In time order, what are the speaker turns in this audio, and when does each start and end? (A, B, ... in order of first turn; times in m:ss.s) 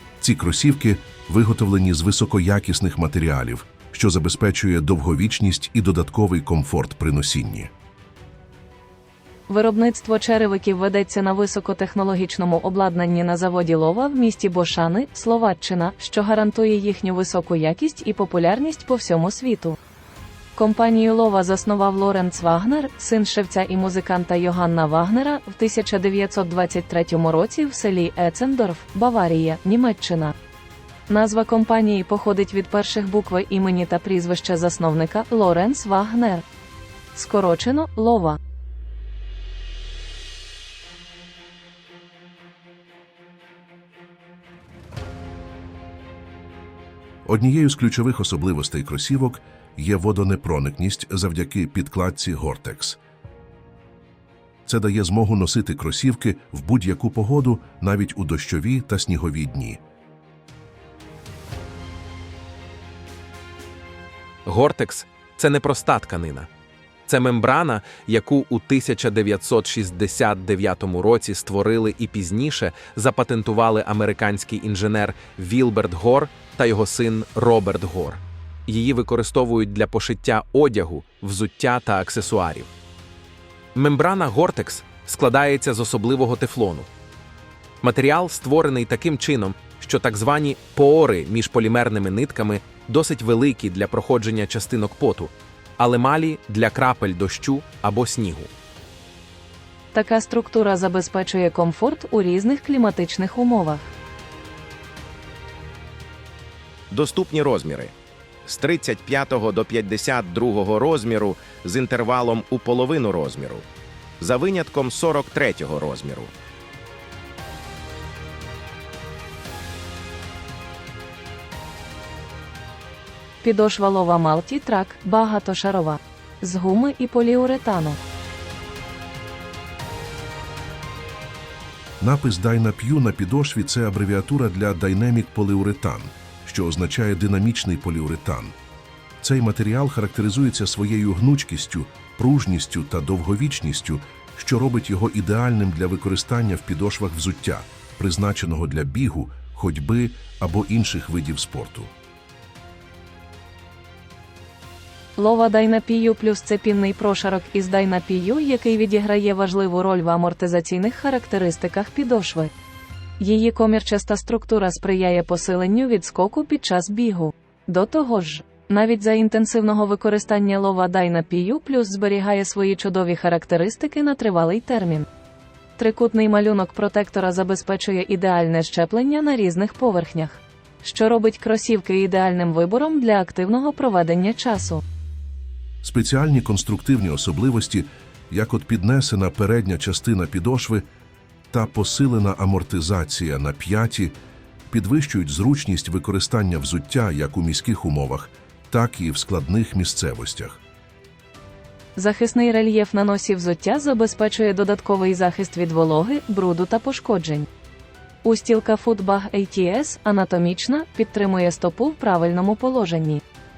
0:00.2-0:07.7 A
0:09.5-0:19.8 B
0:20.6-0:30.3 B
0:31.1-0:36.4 B
0:37.1-0:38.4 B
0:47.2-0:53.0 A
0:54.6-0:59.8 A
1:04.4-1:06.5 C
1:07.1-1:22.7 C
1:23.7-1:26.9 C
1:27.8-1:38.5 C
1:39.9-1:43.9 B
1:46.9-1:47.9 D
1:48.4-1:53.6 D
1:54.2-1:56.3 D
2:03.4-2:08.0 B
2:12.0-2:18.6 A
2:19.2-2:31.9 A
2:35.2-2:42.5 B
2:43.2-2:55.1 B
2:55.8-3:04.8 B
3:05.8-3:10.8 A
3:11.5-3:14.1 A
3:14.7-3:20.6 A
3:22.0-3:27.5 B
3:28.2-3:33.2 B